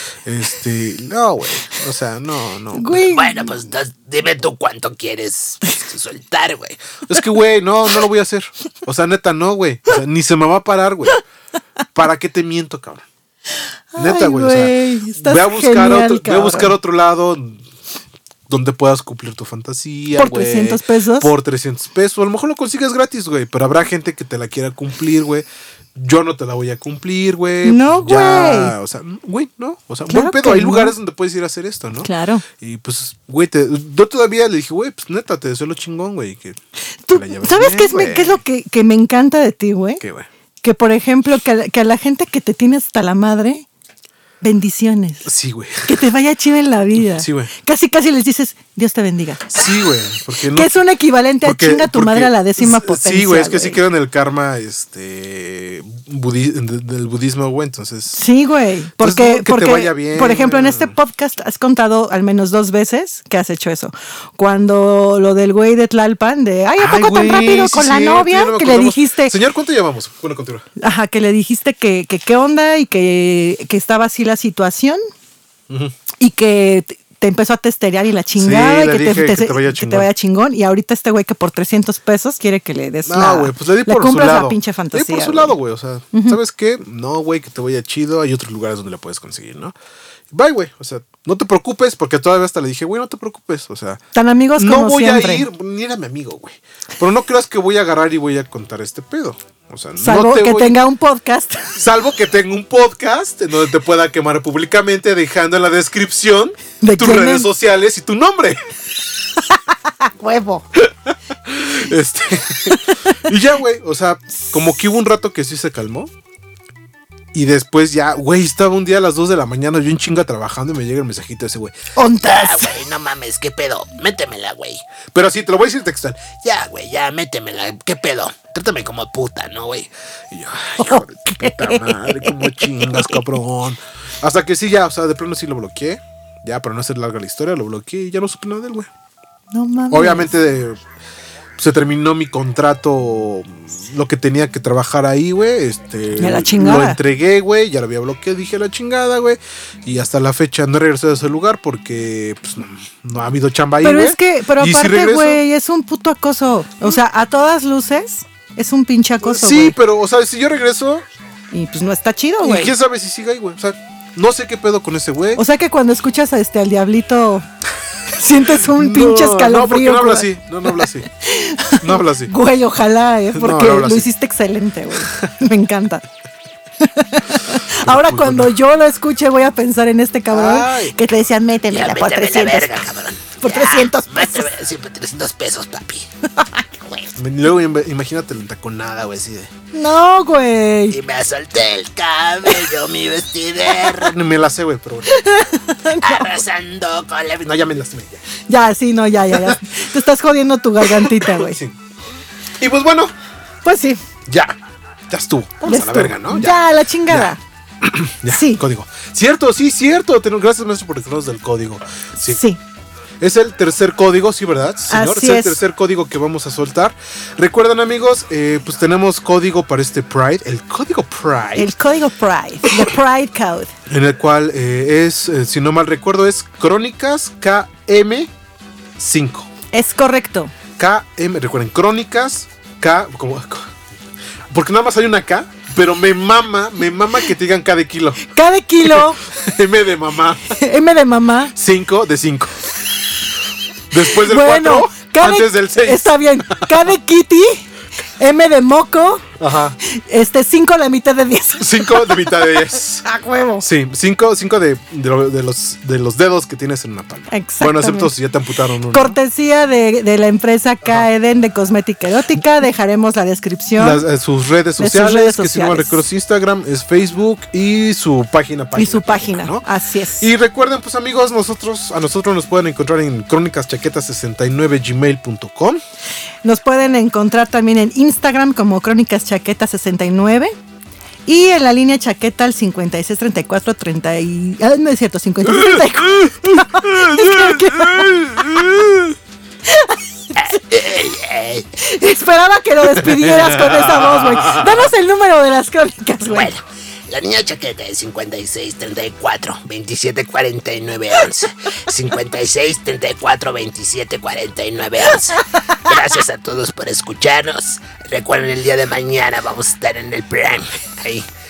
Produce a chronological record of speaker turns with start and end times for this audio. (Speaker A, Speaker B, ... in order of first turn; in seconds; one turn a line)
Speaker A: 0.2-3.1
Speaker B: 2.7-3.5
Speaker C: 3.1-7.0
Speaker A: 7.1-11.2
Speaker A: 11.9-13.0
Speaker B: 13.9-16.7
Speaker A: 14.0-17.6
Speaker A: 18.5-36.6
Speaker B: 20.1-21.3
Speaker B: 27.6-28.7
Speaker B: 30.1-30.9
Speaker B: 32.0-32.4
Speaker B: 37.0-40.0
Speaker A: 37.1-38.4
Speaker A: 40.0-40.3
Speaker B: 40.6-43.6
Speaker B: 44.4-45.3
Speaker A: 45.2-46.0
Speaker B: 45.8-49.5
Speaker A: 47.0-47.5
Speaker A: 49.5-50.8
Speaker B: 50.5-53.8
Speaker A: 51.4-58.2
Speaker B: 58.1-69.3
Speaker A: 59.0-60.9
Speaker A: 66.8-70.6
Speaker B: 70.8-75.0
Speaker A: 75.7-76.0
Speaker B: 76.2-85.5
Speaker A: 78.3-80.1
Speaker A: 83.0-89.7
Speaker B: 86.1-86.4
Speaker A: 90.3-94.0
Speaker B: 94.1-95.5
Speaker A: 94.5-100.8
Speaker B: 100.0-101.7
Speaker A: 101.7-108.6
Speaker B: 106.8-107.5
Speaker B: 109.5-110.7
Speaker A: 110.7-116.1
Speaker B: 112.7-113.0
Speaker A: 117.3-121.7
Speaker B: 122.0-122.8
Speaker C: 122.2-124.8
Speaker A: 125.1-126.4
Speaker C: 126.4-129.9
Speaker A: 130.3-138.9
Speaker B: 130.8-131.9
Speaker B: 139.5-140.3
Speaker A: 139.9-140.8
Speaker A: 141.6-155.4
Speaker B: 146.2-147.0
Speaker B: 153.8-159.7
Speaker A: 159.2-161.0
Speaker B: 161.5-162.7
Speaker A: 162.4-165.4
Speaker B: 165.3-167.5
Speaker B: 168.1-176.0
Speaker A: 168.5-171.1
Speaker A: 171.8-172.3
Speaker A: 173.3-174.1
Speaker B: 176.8-182.7
Speaker A: 177.8-178.5
Speaker A: 180.3-180.9
Speaker C: 181.7-186.1
Speaker B: 183.4-184.5
Speaker B: 186.4-186.6
Speaker A: 187.2-189.5
Speaker B: 189.7-191.0
Speaker C: 190.9-194.1
Speaker A: 193.7-195.2
Speaker B: 195.0-196.4
Speaker C: 196.0-197.6
Speaker A: 197.4-198.2
Speaker B: 198.5-201.6
Speaker A: 199.3-199.8
Speaker A: 200.8-201.8
Speaker A: 202.6-203.1
Speaker B: 203.6-204.0
Speaker A: 204.2-204.5
Speaker A: 205.1-212.4
Speaker B: 205.6-207.4
Speaker B: 208.3-208.6
Speaker B: 212.2-212.6
Speaker A: 213.2-221.7
Speaker B: 214.9-215.6
Speaker B: 221.6-223.7
Speaker A: 223.9-228.3
Speaker A: 229.0-229.5
Speaker B: 229.7-230.5
Speaker A: 230.8-233.7
Speaker A: 234.5-238.2
Speaker B: 238.2-239.2
Speaker A: 238.8-240.6
Speaker B: 240.5-241.5
Speaker A: 241.5-242.6
Speaker A: 243.9-246.8
Speaker B: 244.0-247.7
Speaker B: 248.2-249.3
Speaker A: 249.4-249.8
Speaker B: 249.8-253.6
Speaker A: 251.6-253.0
Speaker A: 253.6-259.2
Speaker B: 257.3-258.1
Speaker B: 258.9-264.0
Speaker A: 263.8-269.6
Speaker B: 264.8-266.0
Speaker B: 268.8-270.3
Speaker A: 270.2-275.8
Speaker B: 276.4-280.5
Speaker B: 281.2-288.8
Speaker A: 285.4-289.1
Speaker B: 289.6-290.6
Speaker C: 290.4-291.7
Speaker B: 291.8-296.5
Speaker A: 293.1-294.4
Speaker C: 296.2-311.3